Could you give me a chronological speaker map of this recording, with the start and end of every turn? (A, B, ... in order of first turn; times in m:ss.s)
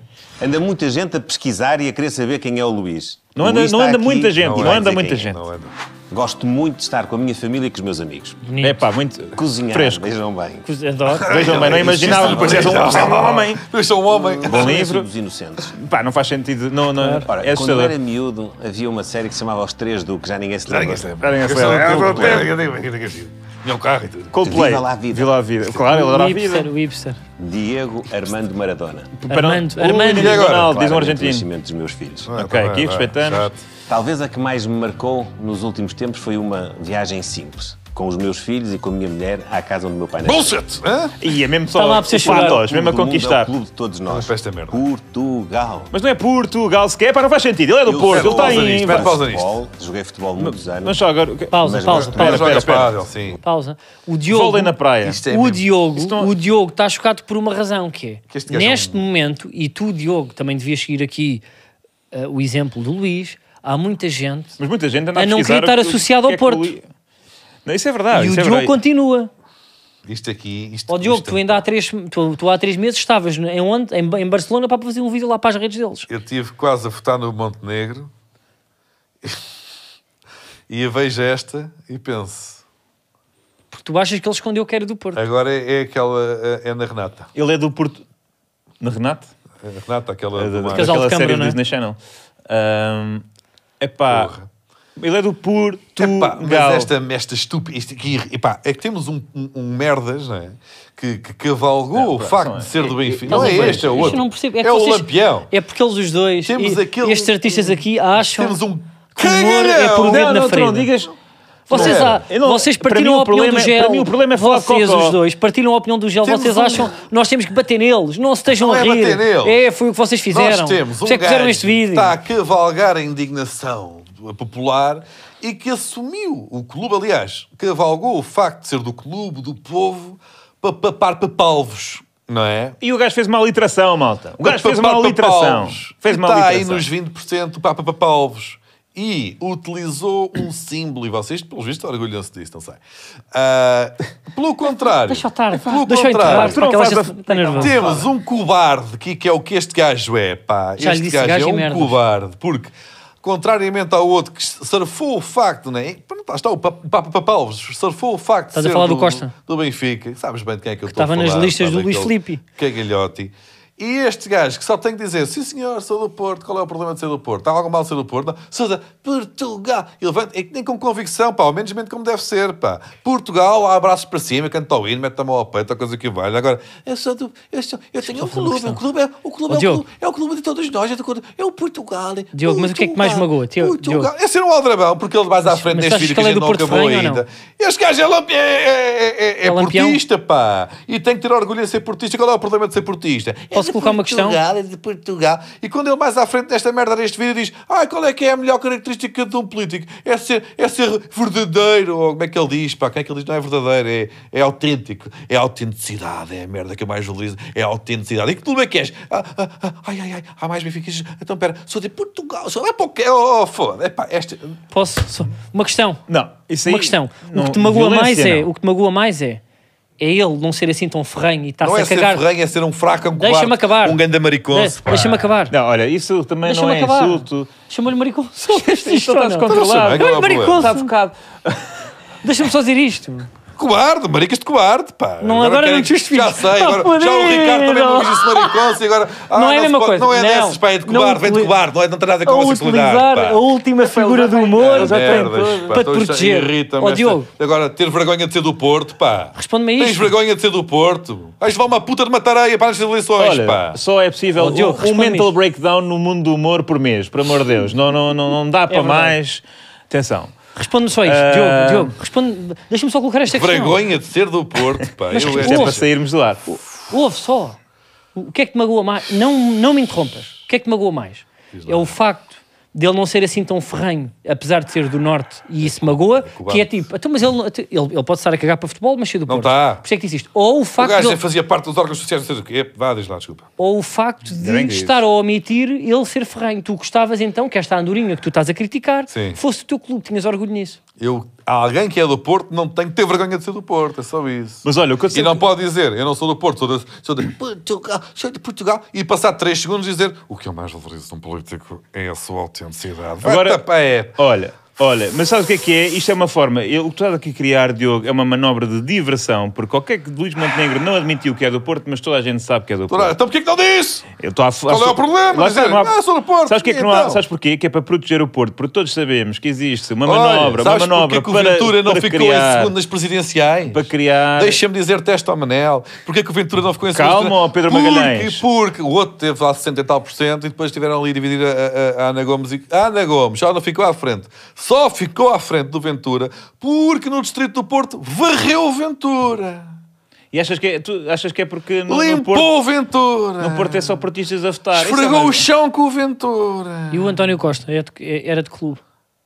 0:00.4-0:05.3 A
0:03.3-0:05.4 B
0:04.4-0:05.7 C
0:06.1-0:08.4 A
0:08.4-0:08.8 D
0:08.6-0:10.1 B
0:09.3-0:10.7 A
0:10.6-0:11.4 D
0:11.1-0:14.8 C
0:11.2-0:13.6 B
0:11.3-0:13.3 A
0:14.1-0:15.7 A
0:14.4-0:15.1 B
0:15.7-0:17.9 B
0:17.0-0:17.3 D
0:17.3-0:21.1 A
0:20.6-0:24.5 C
0:21.2-0:22.5 B
0:24.3-0:26.7 B
0:24.4-0:25.3 A
0:25.9-0:27.2 D
0:27.4-0:29.1 A
0:29.2-0:30.4 D
0:29.2-0:31.5 B
0:30.1-0:30.7 C
0:30.4-0:32.3 A
0:32.2-0:33.6 C
0:32.4-0:33.5 B
0:33.9-0:40.6 A
0:40.2-0:41.2 C
0:41.2-0:43.5 B
0:41.7-0:42.6 D
0:42.1-0:45.9 A
0:44.1-0:44.8 C
0:45.9-0:49.2 B
0:47.8-0:51.0 A
0:48.1-0:49.6 C
0:50.4-0:52.9 B
0:51.5-0:52.4 D
0:51.6-0:52.7 A
0:52.1-0:53.4 C
0:53.4-1:01.4 D
0:54.3-0:55.2 B
0:55.0-0:55.6 C
0:56.0-0:56.3 B
0:58.3-0:59.0 C
1:02.1-1:04.6 D
1:04.6-1:06.8 B
1:05.1-1:06.7 D
1:07.6-1:08.8 B
1:08.1-1:09.3 D
1:10.0-1:11.6 C
1:10.9-1:16.1 D
1:16.1-1:18.1 C
1:20.7-1:22.6 C
1:23.7-1:25.2 D
1:25.1-1:27.3 C
1:27.3-1:28.0 B
1:28.8-1:29.3 B
1:29.6-1:31.0 C
1:30.4-1:32.0 B
1:30.7-1:31.6 D
1:32.5-1:33.2 B
1:33.8-1:34.3 B
1:34.1-1:34.5 C
1:35.0-1:36.9 B
1:36.0-1:45.5 C
1:41.9-1:44.2 B
1:43.3-1:48.6 D
1:46.4-1:50.3 C
1:49.1-1:50.9 D
1:50.0-1:51.1 B
1:51.7-1:55.2 B
1:51.7-2:02.1 D
1:51.7-1:52.2 C
1:56.2-1:56.9 C
1:58.5-1:59.6 C
2:00.3-2:12.8 C
2:12.8-2:16.8 B
2:14.4-2:22.8 C
2:23.3-2:26.6 C
2:25.0-2:27.8 D
2:26.2-2:28.1 B
2:27.6-3:34.6 C
2:30.8-2:32.0 D
2:38.5-2:39.3 D
2:40.9-2:42.4 D
2:58.0-2:58.8 D
2:59.5-2:59.8 D
3:02.3-3:04.1 D
3:05.5-3:07.2 D
3:09.4-3:10.0 D
3:13.5-3:14.4 D
3:34.7-3:36.0 D
3:36.1-3:38.5 B
3:36.6-3:39.4 D
3:40.0-3:42.2 D
3:41.6-3:45.3 C
3:43.2-3:45.5 D
3:45.5-3:47.5 B
3:46.4-3:50.9 D
3:48.5-3:51.8 B
3:49.5-3:50.7 C
3:52.2-3:53.3 D
3:53.6-4:03.4 C
3:55.2-3:58.7 D
3:59.3-4:01.5 D
4:02.2-4:07.3 D
4:03.8-4:05.8 B
4:04.5-4:13.8 C
4:09.3-4:10.1 D
4:13.2-4:20.4 B
4:14.4-4:15.3 D
4:18.7-4:19.2 D
4:20.6-4:23.8 D
4:21.0-4:21.9 B
4:23.3-4:25.9 C
4:25.1-4:25.8 D
4:25.2-4:26.4 B
4:26.5-4:27.6 D
4:28.1-4:41.2 D
4:31.5-4:31.9 C
4:35.6-4:36.8 C
4:39.3-4:39.8 C
4:40.8-4:43.5 C
4:43.6-4:50.8 D
4:44.4-4:45.0 B
4:49.1-4:49.4 C
4:51.0-5:04.1 C
4:54.6-4:55.4 B
5:03.2-5:03.6 B
5:04.1-5:13.1 B
5:12.9-5:14.1 C
5:14.2-5:22.7 B
5:14.7-5:17.2 C
5:20.0-5:39.7 C
5:23.7-5:24.6 B
5:26.9-5:28.4 B
5:40.3-5:42.5 B
5:41.9-5:44.0 C
5:43.4-5:45.5 B
5:44.7-5:47.3 C
5:46.9-5:48.8 D